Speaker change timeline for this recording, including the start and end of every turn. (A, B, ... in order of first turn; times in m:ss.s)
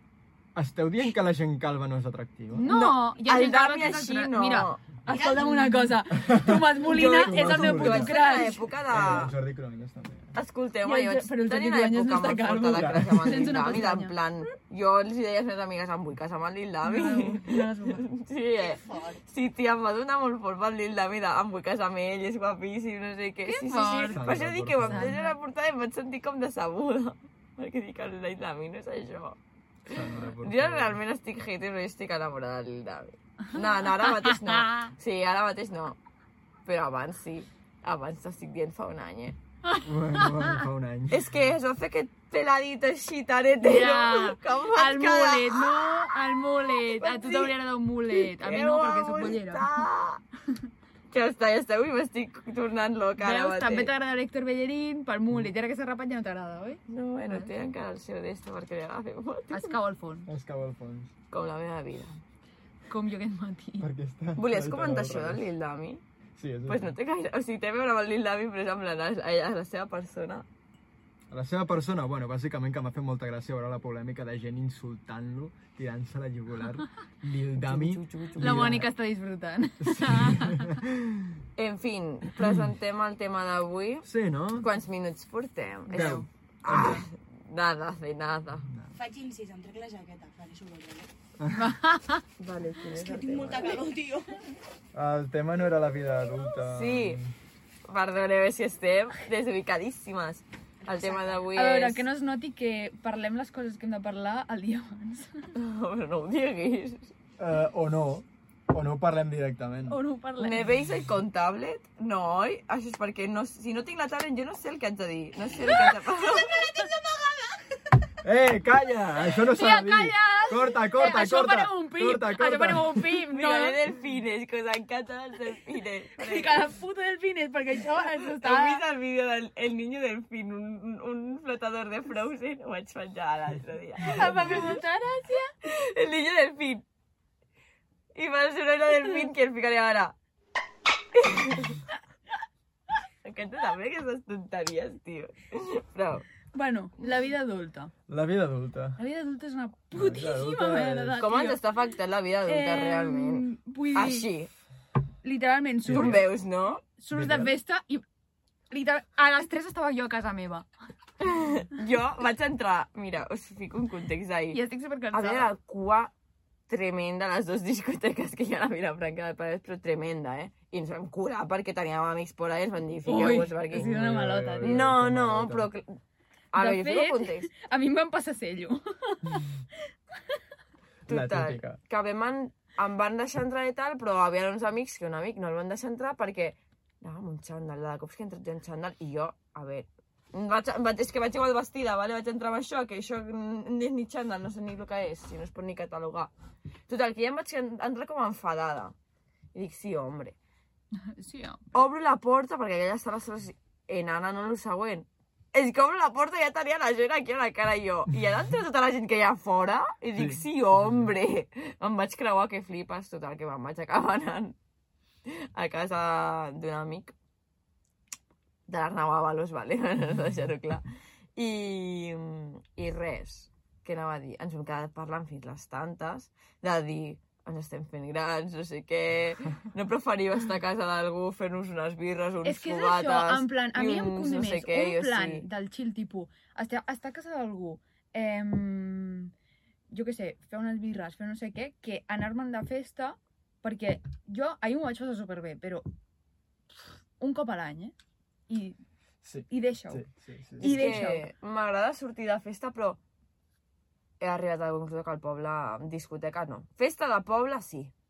0:00.5-0:02.7 A
0:02.5-0:08.6 B
0:02.7-0:04.8 C
0:05.0-0:05.9 D
0:06.1-0:08.1 A
0:06.8-0:09.3 C
0:08.9-0:10.4 A
0:10.3-0:36.0 C
0:10.8-0:14.1 B
0:12.6-0:13.6 A
0:16.8-0:18.1 B
0:18.6-0:19.2 D
0:23.5-0:24.2 B
0:24.1-0:25.2 A
0:24.9-0:25.4 B
0:29.9-0:31.0 A
0:33.5-0:34.9 B
0:36.6-0:39.4 C
0:39.6-0:40.6 B
0:39.8-0:41.3 A
0:41.1-0:47.6 C
0:43.6-0:49.8 B
0:48.1-0:50.2 C
0:51.1-0:53.9 C
0:53.2-0:57.7 B
0:56.9-0:59.8 C
0:59.5-1:00.3 B
1:00.3-1:01.1 A
1:01.3-1:02.2 C
1:02.9-1:03.9 B
1:03.8-1:05.4 A
1:04.4-1:06.0 C
1:06.4-1:07.0 A
1:06.7-1:10.5 C
1:11.3-1:18.9 A
1:17.6-1:18.8 C
1:18.4-1:20.8 B
1:19.8-1:21.4 A
1:21.6-1:28.7 C
1:22.4-1:22.6 A
1:24.0-1:24.7 A
1:25.9-1:26.3 B
1:25.9-1:27.0 A
1:28.7-1:28.9 A
1:28.9-1:31.1 D
1:31.4-1:31.7 A
1:31.5-1:32.2 B
1:32.4-1:33.9 C
1:32.9-1:34.3 D
1:34.9-1:37.3 A
1:36.7-1:37.2 C
1:37.9-1:42.0 C
1:40.9-1:41.4 D
1:41.5-1:45.5 B
1:45.5-1:47.1 C
1:47.4-1:50.0 A
1:49.9-1:50.6 B
1:50.4-1:56.7 C
1:56.5-1:57.6 D
1:58.2-2:03.0 A
1:59.5-2:03.8 B
2:03.3-2:06.6 C
2:06.2-2:08.8 B
2:08.4-2:14.8 C
2:14.0-2:15.5 B
2:15.6-2:16.8 C
2:18.1-2:20.1 C
2:21.1-2:21.8 C
2:23.2-2:26.2 C
2:26.5-2:27.9 B
2:28.1-2:29.0 A
2:29.0-2:31.6 B
2:29.9-2:31.2 A
2:31.2-2:34.5 C
2:32.5-2:34.3 B
2:35.2-2:36.2 B
2:35.9-2:36.2 A
2:35.9-2:36.8 C
2:37.0-2:38.0 B
2:37.1-2:37.5 A
2:38.7-2:40.7 B
2:41.2-2:44.6 C
2:44.5-2:45.5 B
2:45.1-2:46.1 C
2:46.7-2:53.9 C
2:53.0-2:54.8 B
2:53.7-2:55.7 A
2:54.6-2:56.0 C
2:56.5-2:57.5 C
2:56.6-2:59.5 B
3:01.0-3:01.8 A
3:01.1-3:16.3 C
3:16.9-3:18.9 C
3:19.5-3:20.4 C
3:21.0-3:21.6 B
3:21.7-3:34.6 C
3:30.2-3:31.1 A
3:35.2-3:37.1 C
3:38.7-3:40.8 C
3:41.4-3:55.5 C
3:52.4-3:59.3 B
3:59.9-4:05.9 B
4:07.2-4:07.9 B
4:08.5-4:08.8 B
4:09.2-4:11.0 A
4:09.5-4:10.0 B
4:10.6-4:11.3 B
4:10.6-4:13.0 C
4:14.2-4:17.9 C